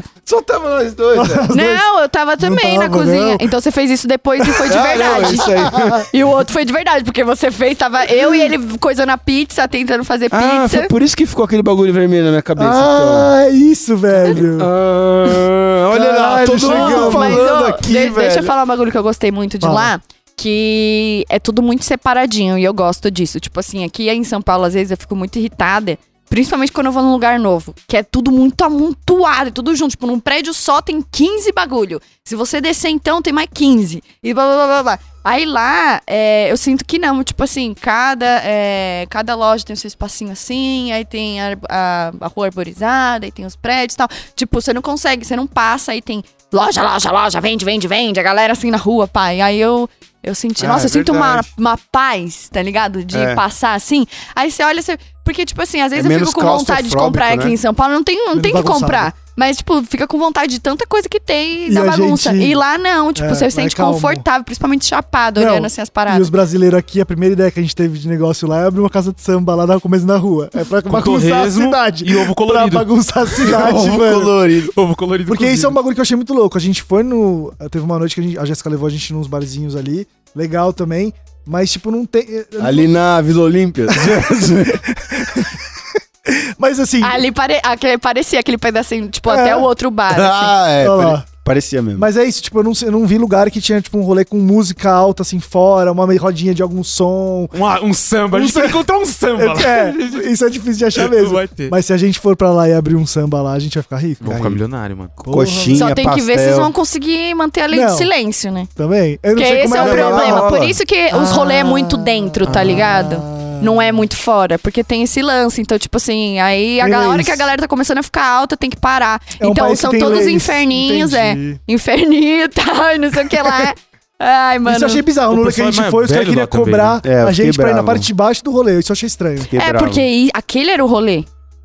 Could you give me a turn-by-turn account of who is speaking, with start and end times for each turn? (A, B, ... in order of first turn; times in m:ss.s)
0:00.2-0:01.5 A
0:01.1-0:01.8 B
0:01.5-0:10.9 C
0:02.4-0:03.4 B
0:04.7-0:06.1 A
0:05.3-0:06.0 B
0:10.3-0:13.3 A
0:12.6-0:14.7 B
0:14.3-0:18.5 A
0:15.9-0:17.5 B
0:16.6-1:06.3 C
0:19.6-0:19.9 B
0:50.6-0:51.5 A
0:53.1-0:53.4 A
0:56.0-0:57.6 A
0:58.3-0:59.1 B
1:01.7-1:02.6 B
1:03.1-1:04.2 B
1:05.4-1:14.3 B
1:10.9-1:13.6 D
1:13.5-1:14.7 A
1:14.7-1:15.8 D
1:15.3-1:22.9 B
1:22.6-1:24.9 A
1:23.9-1:25.6 B
1:26.3-1:27.2 B
1:27.0-1:30.6 C
1:29.3-1:29.7 B
1:30.1-1:32.1 A
1:30.8-1:31.2 B
1:32.0-1:37.5 B
1:37.5-1:40.3 D
1:38.3-1:38.8 B
1:39.4-1:44.2 B
1:40.9-1:41.7 D
1:44.2-1:45.1 D
1:44.2-1:44.6 A
1:45.2-1:46.7 A
1:45.2-1:45.9 B
1:45.7-1:48.7 C
1:47.7-1:48.1 B
1:48.8-1:50.6 B
1:49.3-2:05.0 C
1:49.7-1:50.8 A
1:51.1-1:54.0 B
1:56.8-1:57.5 B
1:59.4-2:01.6 B
2:04.6-2:09.5 B
2:05.3-2:07.0 D
2:07.0-2:08.1 A
2:09.5-2:10.0 A
2:09.5-2:11.3 C